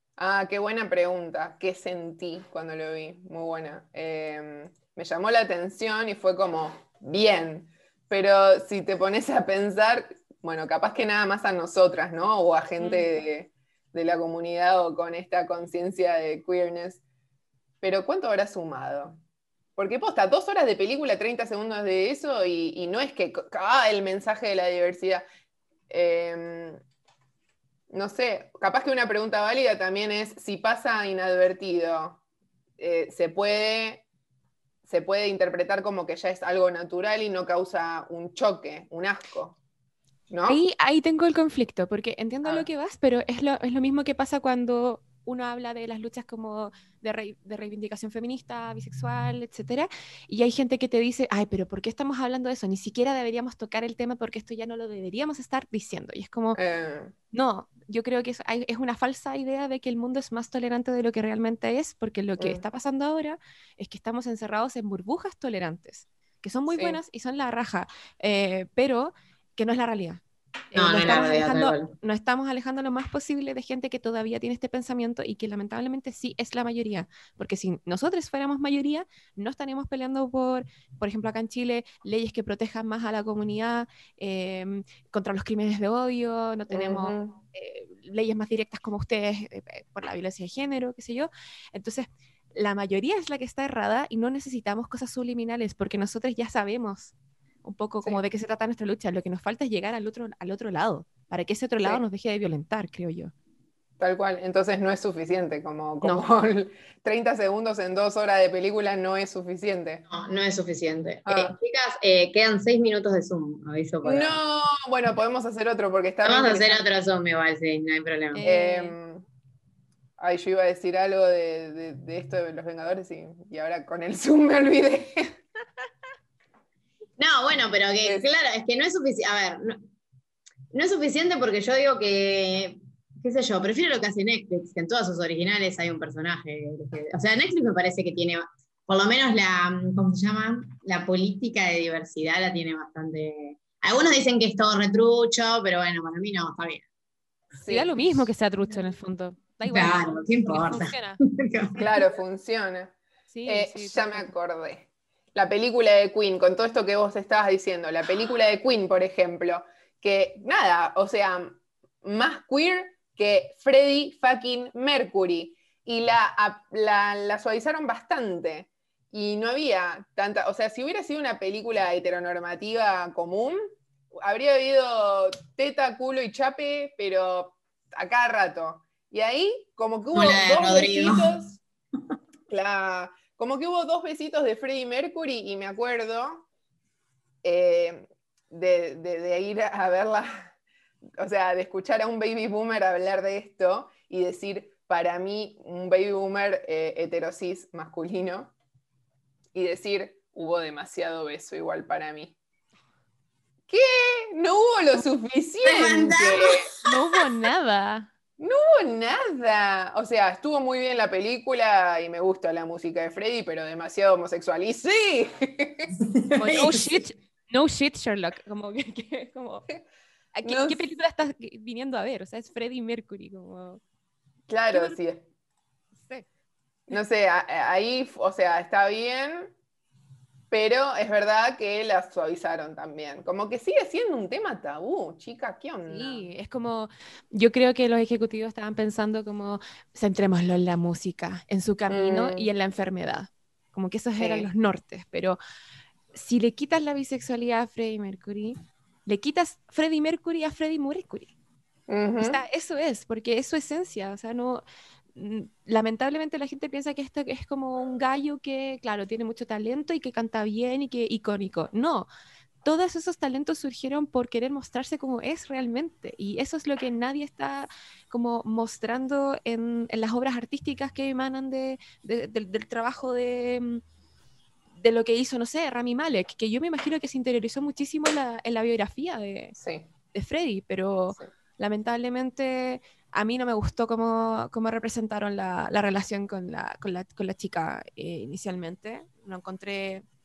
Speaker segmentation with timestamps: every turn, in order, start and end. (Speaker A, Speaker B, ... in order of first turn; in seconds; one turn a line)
Speaker A: 0.2-17.0
Speaker B: 12.8-13.1
Speaker A: 17.8-19.2
Speaker A: 19.8-25.2
Speaker A: 25.9-26.8
Speaker A: 27.9-32.2
Speaker A: 32.8-34.0
Speaker A: 34.9-39.6
Speaker A: 40.3-40.6
Speaker B: 40.5-56.6
Speaker A: 56.6-57.1
Speaker B: 57.3-103.3
Speaker A: 66.7-67.0
Speaker C: 70.7-71.9
Speaker A: 86.7-87.4
Speaker A: 104.0-110.0
Speaker C: 110.1-114.4
Speaker A: 111.3-111.5
Speaker A: 114.0-116.9
Speaker C: 116.2-118.4
Speaker B: 118.3-119.0
Speaker A: 118.4-119.2
Speaker A: 120.2-125.4
Speaker C: 127.2-129.9
Speaker C: 130.7-146.9
Speaker A: 147.6-148.0
Speaker B: 147.7-151.2
Speaker C: 149.7-151.8
Speaker A: 151.8-152.9
Speaker B: 153.3-154.3
Speaker A: 153.5-173.6
Speaker A: 174.1-181.6
Speaker C: 180.1-181.3
Speaker A: 182.5-186.5
Speaker A: 187.4-190.5
Speaker A: 191.2-198.5
Speaker A: 199.5-202.3
Speaker A: 203.7-206.7
Speaker C: 205.7-206.7
Speaker B: 206.8-208.1
Speaker A: 208.4-216.0
Speaker C: 216.3-216.9
Speaker B: 216.4-219.7
Speaker B: 220.3-223.8
Speaker A: 220.4-220.8
Speaker A: 224.5-225.2
Speaker B: 224.7-225.0
Speaker B: 226.0-226.3
Speaker A: 226.9-229.5
Speaker A: 230.5-236.3
Speaker B: 235.8-245.4
Speaker A: 241.9-242.5
Speaker A: 244.2-244.5
Speaker B: 246.1-251.3
Speaker A: 251.9-252.4
Speaker B: 252.2-254.6
Speaker B: 255.2-262.1
Speaker B: 262.6-273.8
Speaker B: 274.8-279.6
Speaker A: 279.6-279.9
Speaker B: 280.1-290.0